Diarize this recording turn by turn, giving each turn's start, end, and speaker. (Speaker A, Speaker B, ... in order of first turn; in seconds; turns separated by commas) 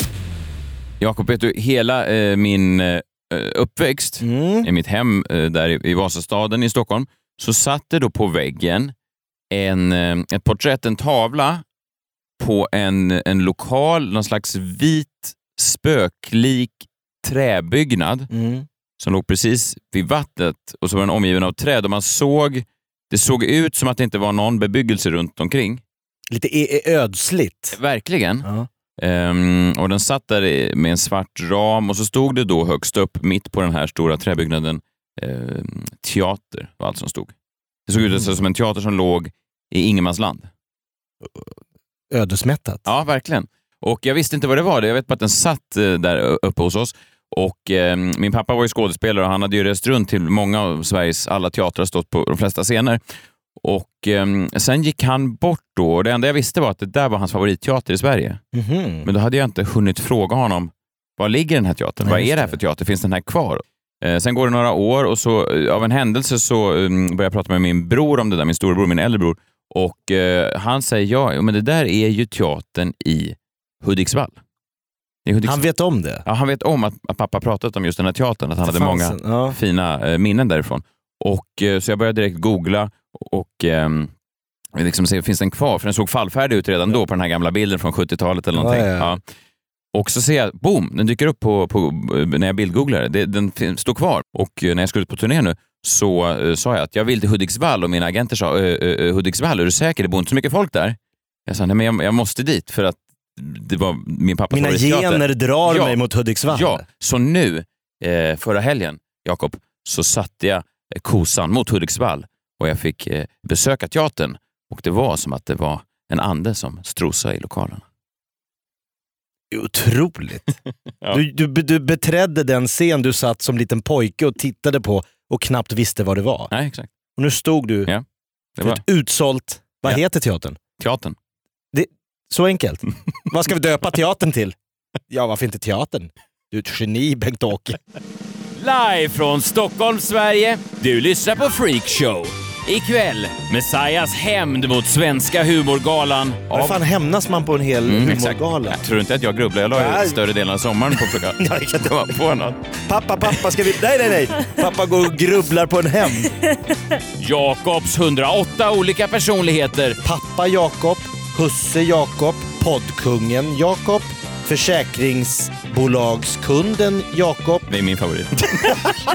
Speaker A: 1.0-8.9, Speaker B: 4.2-4.7, Speaker A: 9.5-11.6, Speaker A: 12.4-18.3, Speaker B: 18.3-18.7, Speaker A: 19.0-25.8, Speaker B: 26.3-27.8, Speaker A: 27.7-28.5, Speaker A: 29.0-37.3, Speaker A: 37.9-40.5, Speaker B: 41.2-41.5, Speaker B: 42.1-42.9, Speaker A: 42.9-53.0, Speaker A: 53.6-58.4, Speaker B: 58.5-59.1, Speaker A: 59.0-74.4, Speaker B: 62.0-62.6, Speaker A: 75.2-75.6, Speaker B: 75.4-76.2, Speaker A: 76.2-84.1, Speaker B: 78.6-79.6, Speaker A: 84.7-89.2, Speaker B: 88.6-89.2, Speaker A: 89.9-117.8, Speaker B: 104.5-106.8, Speaker B: 119.5-120.5, Speaker B: 121.1-126.5, Speaker A: 126.5-126.9, Speaker B: 127.2-127.9, Speaker A: 128.6-128.8, Speaker B: 128.6-130.6, Speaker A: 130.8-131.2, Speaker B: 131.7-134.6, Speaker B: 135.1-137.8, Speaker A: 138.6-146.8, Speaker B: 146.5-148.8, Speaker A: 147.9-152.6, Speaker B: 149.7-150.2, Speaker B: 151.1-152.1, Speaker B: 152.9-156.4, Speaker A: 157.2-160.0, Speaker B: 160.0-167.7, Speaker A: 167.7-168.9